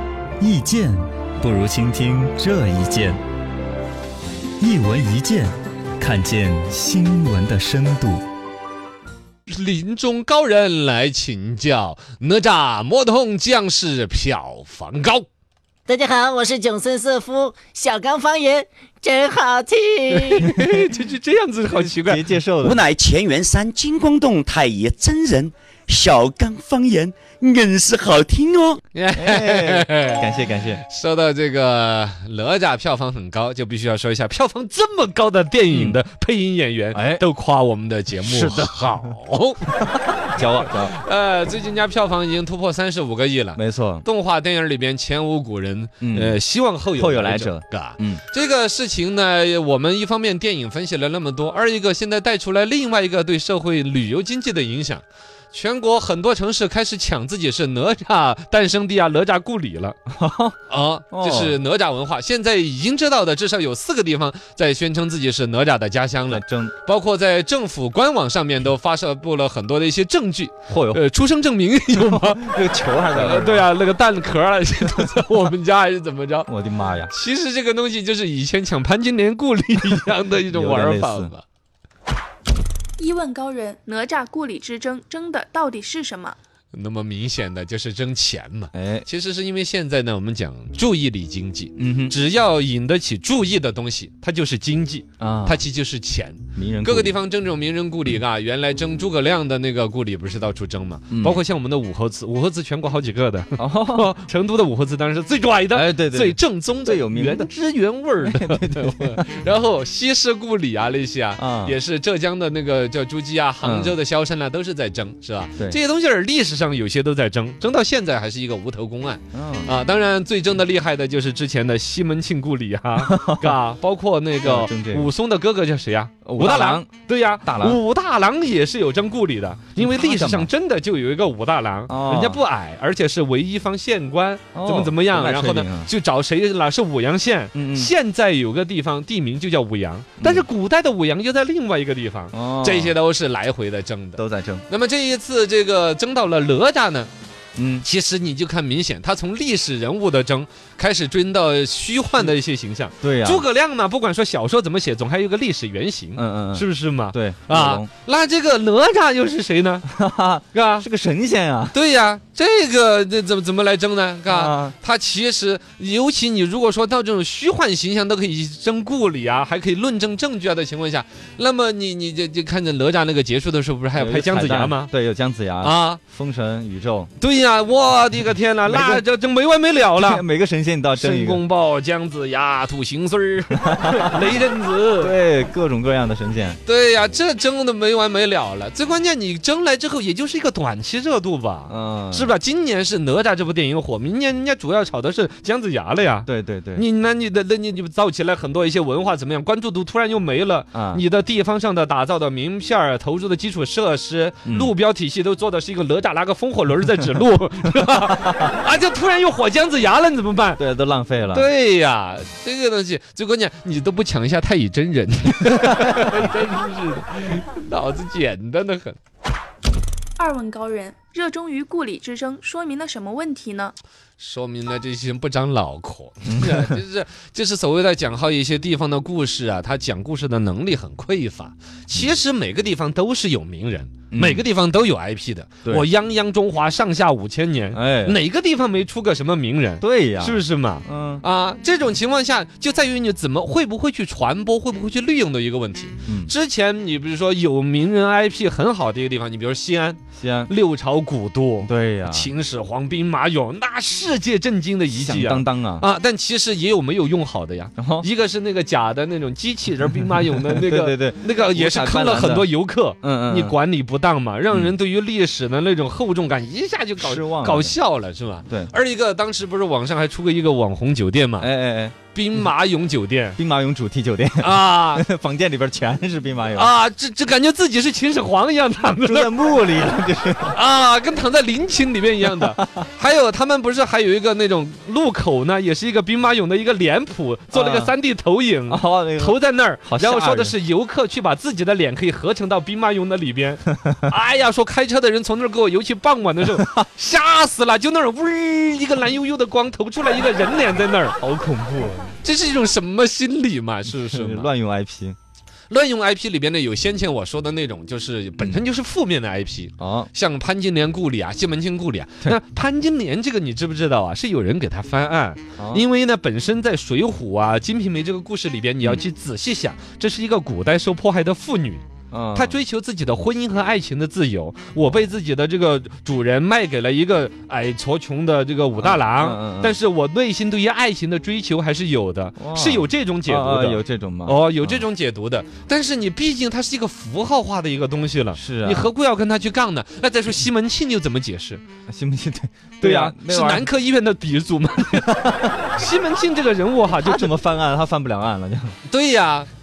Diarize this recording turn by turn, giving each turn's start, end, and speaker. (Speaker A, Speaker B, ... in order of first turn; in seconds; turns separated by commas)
Speaker A: 0.4-3.2, Speaker A: 4.6-8.2, Speaker B: 9.5-15.2, Speaker C: 15.9-20.6, Speaker B: 20.2-22.3, Speaker A: 21.7-22.8, Speaker D: 22.6-28.8, Speaker B: 28.9-39.8, Speaker A: 29.1-30.8, Speaker A: 35.7-36.0, Speaker A: 36.9-37.2, Speaker A: 38.2-39.1, Speaker A: 39.8-41.0, Speaker B: 40.6-60.0, Speaker A: 43.5-44.0, Speaker A: 46.0-46.4, Speaker A: 46.9-48.2, Speaker A: 60.1-60.6, Speaker B: 60.7-72.5, Speaker A: 61.1-61.6, Speaker A: 66.3-66.7, Speaker A: 70.7-71.0, Speaker A: 71.9-73.7, Speaker B: 73.1-76.5, Speaker A: 76.5-77.1, Speaker B: 77.1-81.4, Speaker A: 80.5-81.3, Speaker E: 83.0-86.4, Speaker B: 86.7-147.1, Speaker A: 88.7-89.0, Speaker A: 91.8-92.1, Speaker A: 95.2-95.6, Speaker A: 96.5-97.2, Speaker A: 101.1-101.4, Speaker A: 103.6-104.1, Speaker A: 105.7-107.5, Speaker A: 108.2-109.2, Speaker A: 111.4-111.8, Speaker A: 113.6-114.0, Speaker A: 119.3-119.7, Speaker A: 123.0-123.6, Speaker A: 124.4-125.1, Speaker A: 126.2-126.9, Speaker A: 127.4-127.8, Speaker A: 129.8-130.5, Speaker A: 131.9-132.4, Speaker A: 134.5-135.9, Speaker A: 137.5-137.9, Speaker A: 140.2-140.5, Speaker A: 142.3-142.9, Speaker A: 144.1-144.6, Speaker A: 147.6-147.8, Speaker B: 147.8-159.9, Speaker A: 153.0-153.4, Speaker A: 156.1-157.9, Speaker A: 159.8-161.8, Speaker B: 160.5-160.8, Speaker B: 161.7-174.9, Speaker A: 164.3-164.8, Speaker A: 173.9-177.1, Speaker B: 175.6-176.0, Speaker B: 177.2-180.2, Speaker A: 178.7-179.0, Speaker A: 179.9-181.4, Speaker B: 180.9-185.1, Speaker A: 183.5-184.2, Speaker A: 185.0-186.6, Speaker B: 186.7-210.6, Speaker A: 191.7-192.4, Speaker A: 196.2-196.8, Speaker A: 200.7-201.0, Speaker A: 204.4-204.7, Speaker A: 208.1-208.6, Speaker A: 210.6-211.5, Speaker B: 211.3-219.0, Speaker E: 220.2-223.7, Speaker B: 224.2-271.5, Speaker A: 226.3-226.8, Speaker A: 234.1-234.4, Speaker A: 237.7-238.2, Speaker A: 239.8-241.2, Speaker A: 246.1-246.3, Speaker A: 250.2-250.5, Speaker A: 251.6-252.3, Speaker A: 254.9-255.9, Speaker A: 257.8-258.1, Speaker A: 260.4-262.5, Speaker A: 263.0-263.6, Speaker A: 267.0-267.8, Speaker A: 271.4-271.9, Speaker B: 272.1-273.4, Speaker A: 273.4-276.7, Speaker B: 274.4-275.1, Speaker B: 276.5-279.3, Speaker A: 279.0-280.6, Speaker B: 280.5-301.2, Speaker A: 282.4-282.6, Speaker A: 287.5-287.9, Speaker A: 288.7-290.6, Speaker A: 296.5-296.8, Speaker A: 301.2-302.2, Speaker B: 302.2-304.5, Speaker A: 303.9-305.2, Speaker B: 305.7-321.8, Speaker A: 309.8-310.1, Speaker A: 315.6-315.8, Speaker A: 322.1-322.6, Speaker B: 322.3-341.6, Speaker A: 328.8-329.8, Speaker A: 332.4-334.9, Speaker A: 338.4-338.9, Speaker A: 341.9-343.7, Speaker B: 342.8-347.3, Speaker A: 345.1-345.5, Speaker A: 347.0-348.7, Speaker B: 348.9-349.5